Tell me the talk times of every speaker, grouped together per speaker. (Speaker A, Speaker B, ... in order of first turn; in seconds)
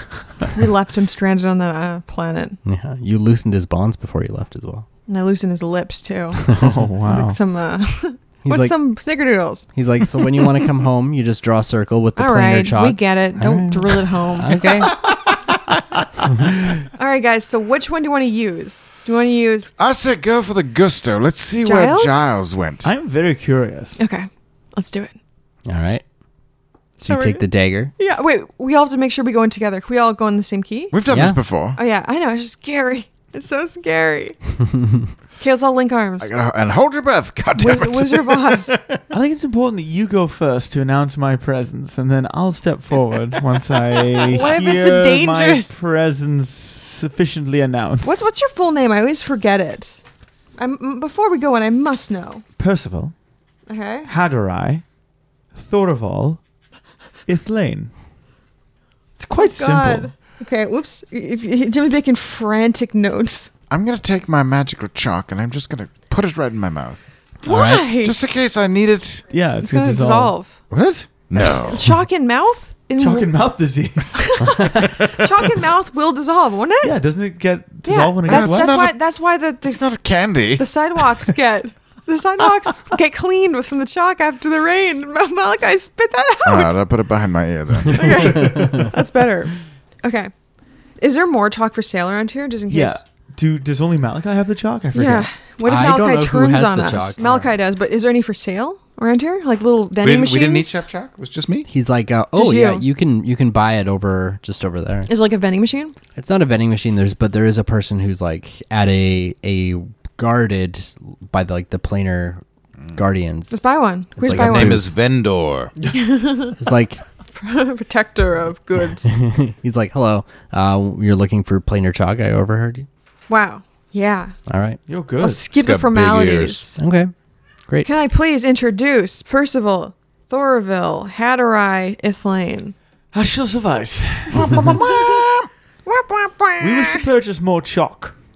Speaker A: 0.3-2.6, 5.1-6.4, 7.1-9.7, 12.2-14.7, 16.9-19.7, 21.6-22.3, 24.0-25.1, 27.0-30.9, 31.8-34.4, 35.4-36.3, 37.6-38.8, 44.3-45.8, 48.0-50.0, 50.6-52.4, 53.7-54.1, 59.4-63.5, 67.4-68.2, 69.6-70.6, 71.7-73.3, 74.2-77.0, 77.8-79.9, 80.6-86.8, 87.9-90.3, 91.0-93.0, 94.9-100.8, 102.3-102.8, 105.1-106.0, 113.5-114.8, 115.9-116.6, 117.3-119.2, 123.3-124.3, 125.2-126.8, 127.8-132.8, 134.4-137.1
Speaker B: 2.6-4.9, 8.4-8.8, 9.8-14.9, 25.7-26.0, 27.1-27.9, 31.1-31.4, 34.8-35.1, 67.5-67.9, 88.2-88.9, 95.6-97.5, 101.7-105.1, 106.2-112.4, 113.0-113.6, 114.2-114.9, 116.6-117.0, 119.0-122.9, 124.5-124.8, 126.8-127.1
Speaker C: 6.5-7.4, 22.8-24.0, 39.1-48.3, 52.6-53.1, 54.0-54.8, 55.5-56.4, 57.3-57.9, 59.2-60.1, 69.3-70.3, 73.0-74.6, 76.8-78.7, 92.7-95.3, 124.9-125.4, 133.1-134.6, 136.6-138.2
Speaker D: 14.9-15.2, 19.8-22.9, 30.9-31.8, 36.2-39.0, 63.7-67.0, 68.0-69.2, 70.7-71.9, 75.0-75.3, 78.3-79.0, 79.6-80.7, 86.5-88.4, 100.0-101.7, 114.3-115.7, 125.5-126.7, 134.3-135.5